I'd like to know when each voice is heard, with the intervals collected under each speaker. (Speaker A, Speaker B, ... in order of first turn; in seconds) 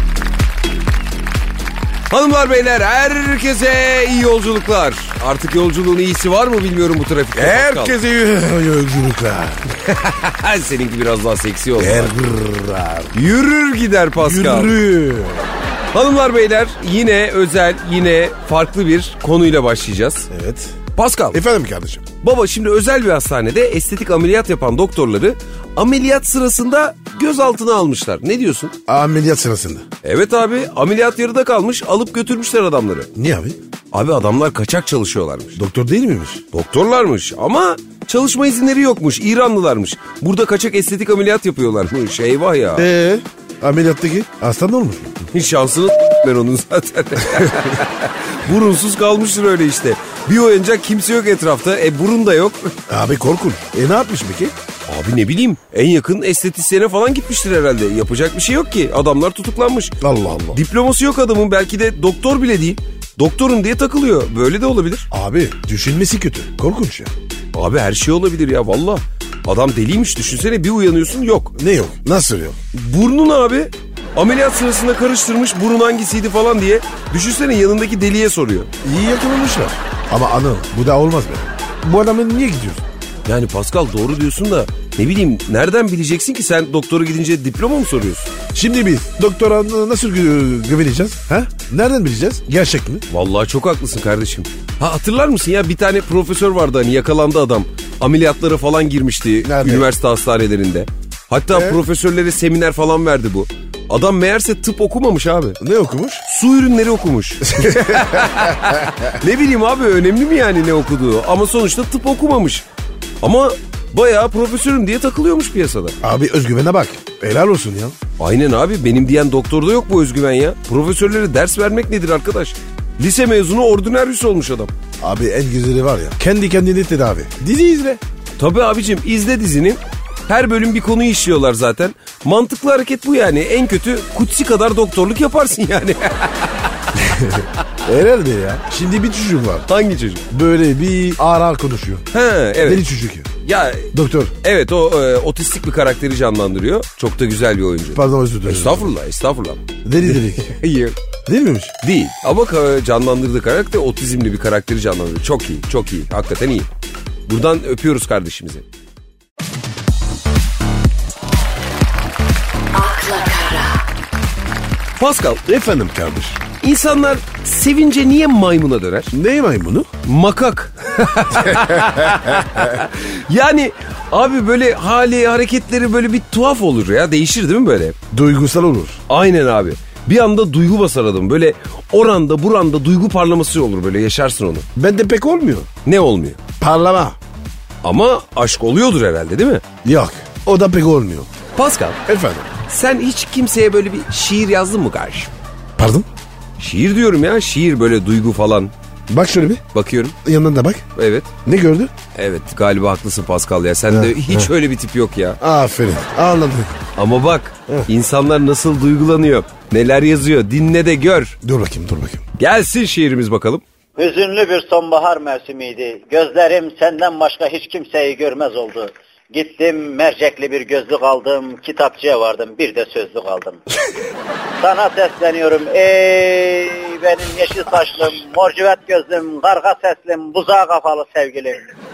Speaker A: 2.1-8.0, 9.7-12.1, 13.1-14.7, 15.9-20.3, 21.0-21.4, 22.2-28.7, 30.0-33.1, 33.9-35.6, 36.5-42.9, 45.3-52.7, 54.9-60.0, 60.5-65.1, 67.5-71.5, 72.7-78.7, 83.2-88.3, 93.1-105.6, 106.3-112.7, 113.2-116.0, 118.2-124.7, 128.4-136.5, 139.7-140.2, 142.1-142.8, 143.4-151.0, 151.8-156.7, 157.3-158.6, 163.1-163.8, 165.0-165.4, 166.6-169.1, 170.0-178.0, 179.1-184.7, 185.8-186.4, 187.8-189.6, 191.6-192.0, 192.7-195.3, 196.6-198.7, 199.7-200.2, 201.0-201.3, 202.2-205.4, 207.0-211.4, 212.4-213.6
Speaker B: 7.3-9.6, 11.8-13.2, 14.2-15.5, 20.3-20.8, 21.3-22.0, 28.9-29.8, 33.1-33.6, 35.6-36.4, 42.8-45.2, 52.9-54.5, 60.0-60.6, 65.1-67.1, 71.6-72.6, 78.8-82.8, 88.5-93.0, 99.4-99.9, 101.5-101.8, 105.6-106.2, 107.4-109.1, 116.0-118.0, 125.0-128.0, 137.0-139.7, 140.3-143.3, 143.9-144.3, 147.9-148.9, 149.8-150.5, 151.3-151.7, 165.5-166.4, 169.1-169.9, 171.5-171.9, 178.1-179.0, 184.8-185.7, 186.6-187.2, 189.8-191.3, 192.1-192.5, 195.8-196.1, 199.1-199.6, 200.2-200.8, 201.4-201.9, 203.9-204.5, 205.4-206.7, 211.4-212.2
Speaker C: 162.7-163.8, 214.0-223.6, 224.6-231.7